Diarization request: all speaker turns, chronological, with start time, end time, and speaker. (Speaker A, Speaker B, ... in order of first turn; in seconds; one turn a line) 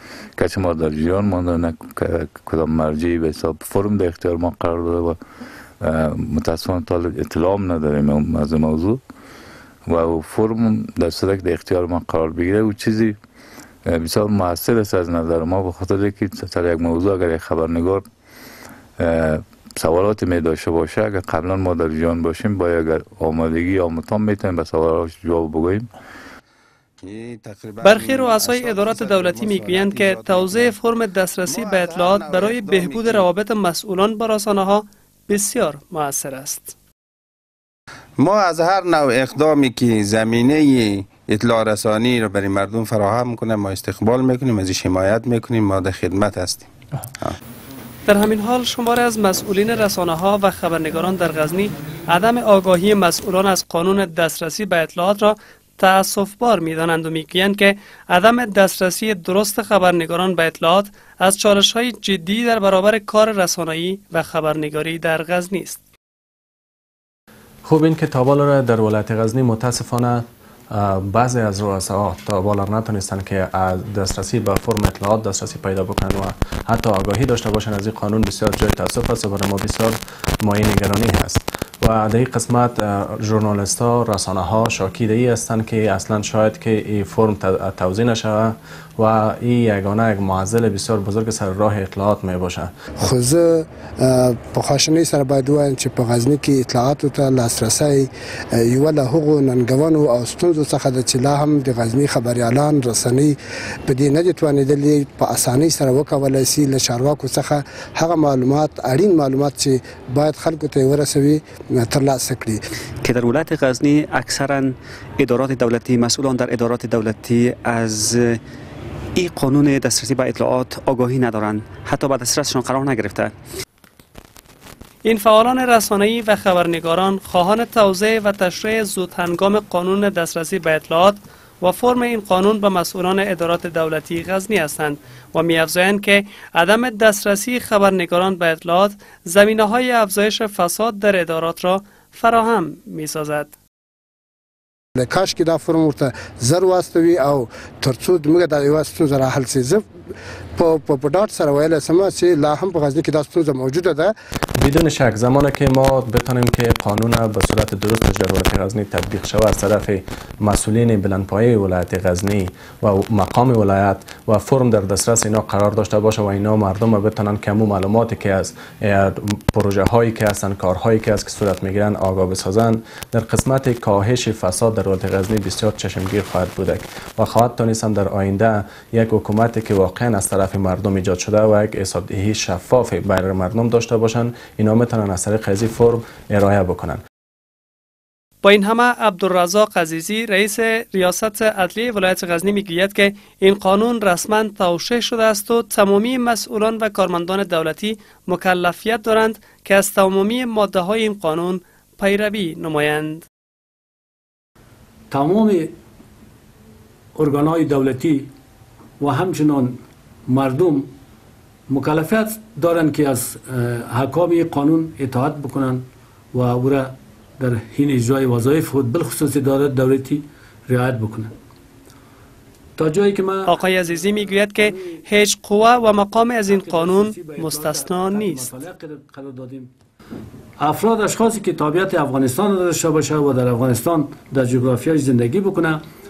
Speaker A: 0.4-5.2
Speaker A: 5.8-9.0
Speaker A: 9.9-13.2
Speaker A: 13.8-18.0
Speaker A: 19.0-25.9
Speaker B: 27.0-30.8
Speaker C: 27.8-36.7
Speaker B: 31.5-33.3
Speaker B: 38.2-46.7
Speaker C: 48.1-65.8
Speaker D: 67.6-92.8
Speaker E: 92.9-112.6
Speaker F: 113.0-118.4
Speaker F: 119.2-123.3
Speaker C: 125.0-143.5
Speaker E: 145.0-149.8
Speaker E: 150.6-154.1
Speaker D: 154.6-187.0
Speaker C: 188.4-203.2
Speaker G: 205.1-205.7
Speaker G: 207.1-208.3
Speaker G: 209.0-210.9
Speaker G: 211.7-221.3
Speaker G: 222.8-223.5
Speaker C: 223.5-228.5
Speaker G: 226.5-229.7
Speaker G: 230.6-235.8